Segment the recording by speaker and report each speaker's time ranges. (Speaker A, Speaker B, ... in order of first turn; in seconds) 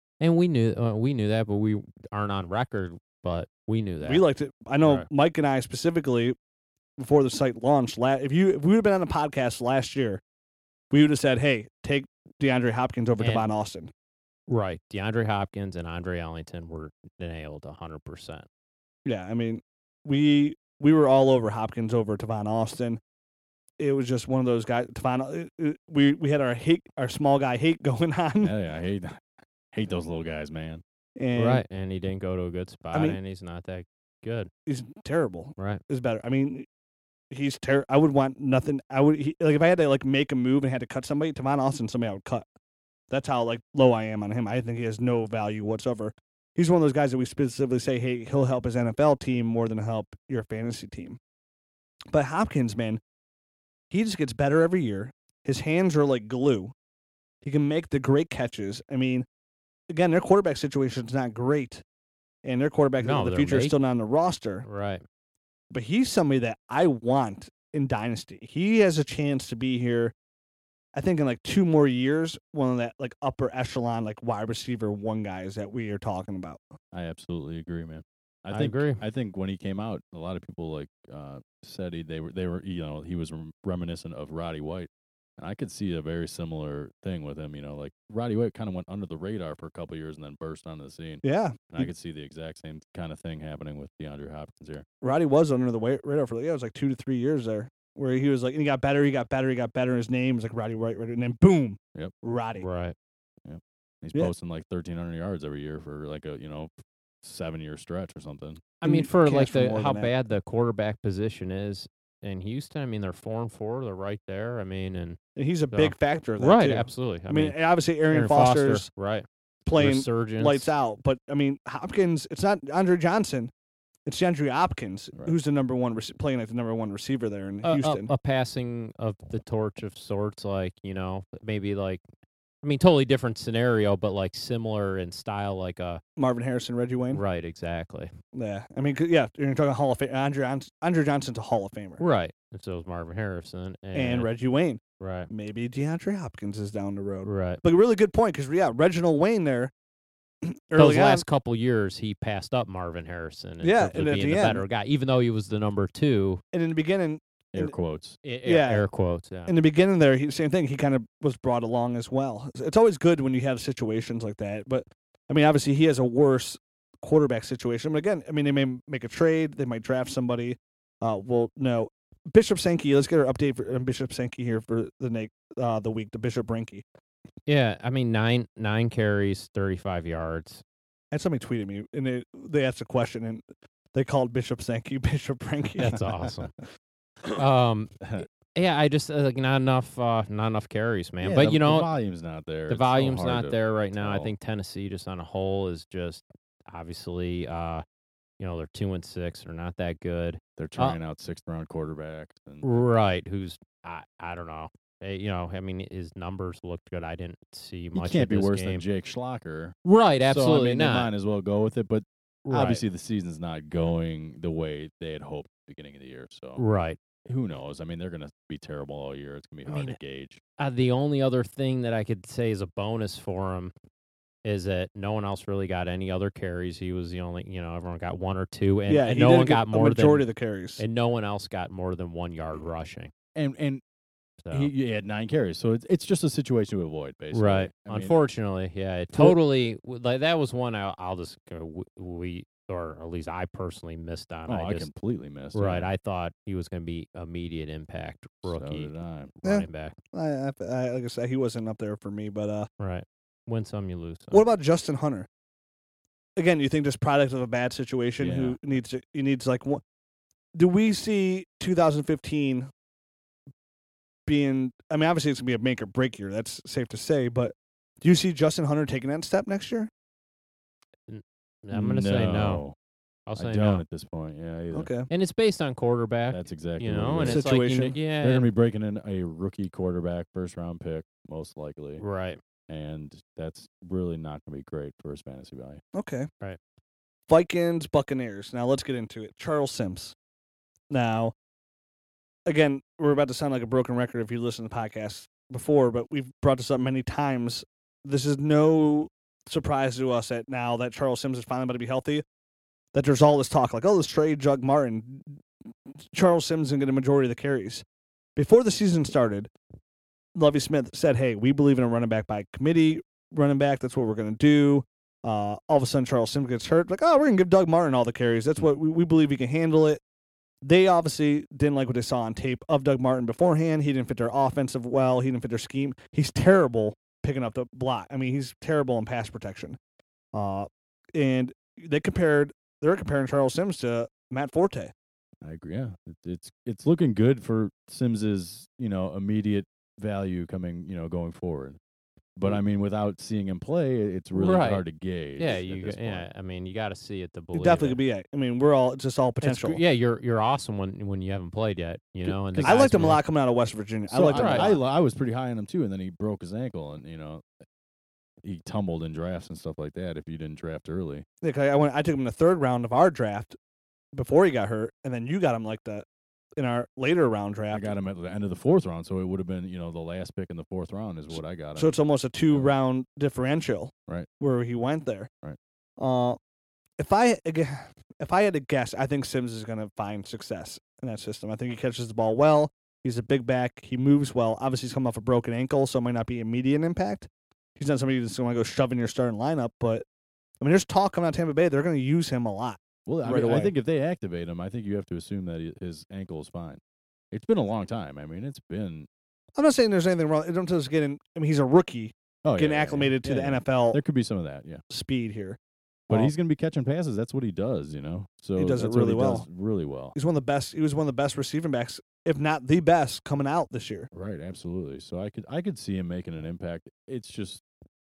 Speaker A: 0.2-4.2, 4.8-5.1, 13.2-13.5, 14.5-18.4, 31.3-34.5, 63.0-63.7, 64.6-65.0, 78.5-79.0, 102.6-102.9, 108.8-115.2, 115.7-117.6, 118.1-120.7, 127.6-132.0, 132.6-136.0, 137.1-138.1, 142.0-144.3, 145.0-145.3, 147.2-147.6, 150.7-156.4, 158.2-159.5, 177.5-180.6, 185.8-186.5, 187.3-191.9, 192.7-197.8, 198.4-201.0, 202.6-208.8, 209.8-211.1, 212.4-212.8, 216.6-217.0, 219.7-220.0, 220.6-223.7, 224.4-230.2, 230.8-233.1, 234.4-234.7, 237.3-244.9, 245.5-248.9, 249.4-249.9, 252.8-254.4, 271.1-272.6, 273.3-273.8, 275.1-278.5, 282.0-282.4, 344.3-344.8, 345.4-348.0, 349.4-353.2, 354.3-354.8
Speaker B: 4.0-6.3, 7.0-10.2, 10.9-13.9, 19.0-23.0, 23.8-28.5, 31.2-31.6, 32.9-33.2, 34.7-36.7, 37.3-42.5, 43.1-51.2, 52.1-53.0, 53.9-56.7, 57.4-59.2, 59.9-61.8, 62.4-64.6, 65.7-70.1, 70.9-76.6, 91.2-91.9, 95.0-102.7, 108.8-110.1, 115.3-118.8, 119.7-123.5, 124.0-128.1, 136.2-137.2, 138.3-142.0, 143.9-149.7, 150.4-151.2, 153.6-154.6, 156.5-157.7, 158.4-158.8, 159.5-176.8, 181.1-183.4, 183.9-185.9, 228.9-230.8, 249.4-252.7, 254.3-255.3, 256.4-259.8, 260.5-262.7, 264.3-269.9, 274.7-275.1, 277.2-277.9, 285.9-286.3, 287.3-290.1, 290.9-291.3, 292.4-302.2, 302.9-305.3, 306.1-307.8, 308.4-309.5, 310.4-320.0, 320.6-329.8, 330.3-334.9, 347.5-349.8, 352.6-354.8, 361.4-363.6, 364.1-366.0, 366.6-367.9, 371.8-375.3, 376.0-376.4, 377.0-390.0, 390.6-393.7, 399.6-404.0, 404.9-405.6, 408.6-409.5, 410.1-414.1
Speaker C: 28.4-30.8, 76.9-94.8, 103.4-106.7, 107.2-108.6, 157.5-158.2, 191.2-194.3, 200.6-202.7, 207.9-209.8, 210.3-216.6, 217.2-220.4, 233.3-233.8, 234.5-238.2, 244.5-245.9, 248.4-249.4, 258.2-258.6, 271.7-272.7, 273.4-274.9, 276.3-282.0, 282.7-285.8, 335.4-341.8, 342.4-346.3, 352.2-353.2, 354.1-357.4, 358.4-361.2, 367.7-371.9, 393.1-396.8, 397.3-399.1, 402.4-404.8, 406.1-410.1, 414.1-417.6